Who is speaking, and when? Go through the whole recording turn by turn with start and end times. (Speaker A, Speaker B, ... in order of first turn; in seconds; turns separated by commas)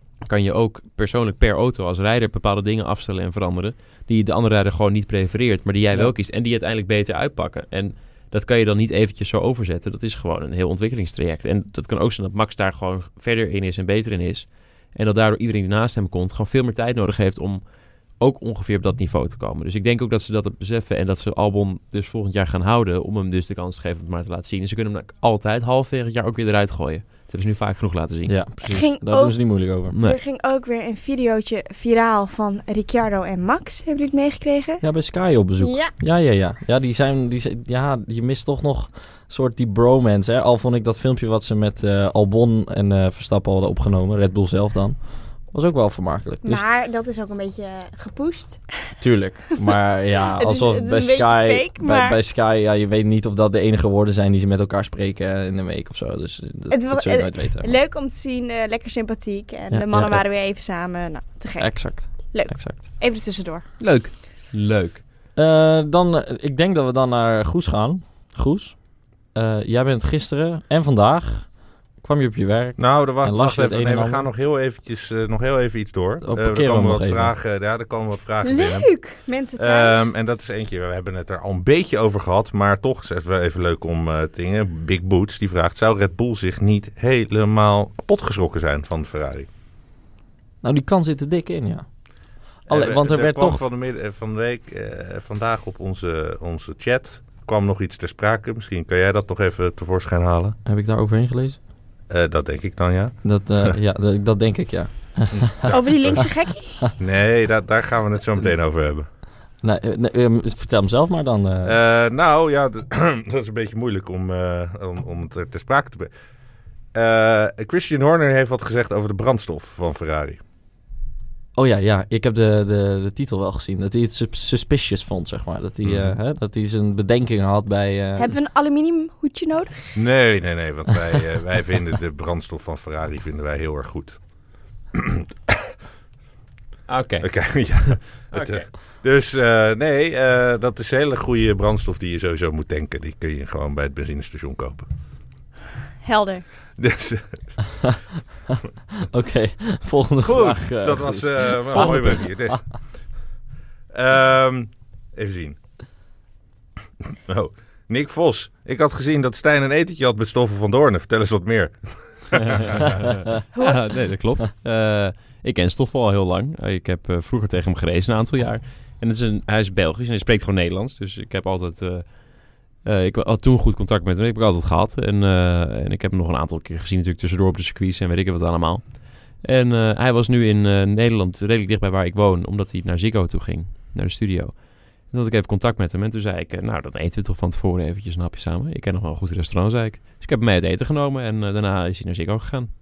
Speaker A: 0.2-17.6, Speaker A: 18.2-28.3, Speaker B: 28.3-30.0, Speaker C: 28.6-34.8, Speaker A: 29.9-30.2, Speaker B: 34.8-46.6, Speaker C: 35.6-35.9, Speaker C: 46.4-48.6, Speaker B: 49.0-57.8, Speaker C: 50.3-52.2, Speaker C: 56.7-63.6, Speaker B: 59.7-60.2, Speaker B: 61.6-62.8, Speaker A: 63.8-65.0, Speaker B: 65.4-74.3, Speaker D: 72.8-78.9, Speaker B: 76.2-77.3, Speaker C: 78.4-80.0, Speaker D: 79.6-89.5, Speaker B: 90.6-91.9, Speaker B: 92.7-93.6, Speaker D: 92.7-100.6, Speaker B: 100.7-101.6, Speaker D: 102.1-103.7, Speaker B: 103.2-105.7, Speaker D: 105.3-106.3, Speaker C: 105.7-106.8, Speaker D: 107.0-109.0, Speaker B: 109.6-111.8, Speaker D: 111.7-116.1, Speaker D: 116.9-120.4, Speaker B: 121.6-128.3, Speaker D: 125.8-126.2, Speaker C: 128.2-130.0, Speaker D: 130.0-134.2, Speaker D: 134.9-135.7, Speaker A: 136.9-138.7, Speaker D: 137.2-144.9, Speaker C: 146.0-146.5, Speaker D: 146.8-147.3, Speaker B: 149.0-152.6, Speaker D: 150.2-152.8, Speaker D: 153.9-155.6, Speaker D: 157.1-163.0, Speaker A: 163.3-192.7, Speaker C: 163.6-163.8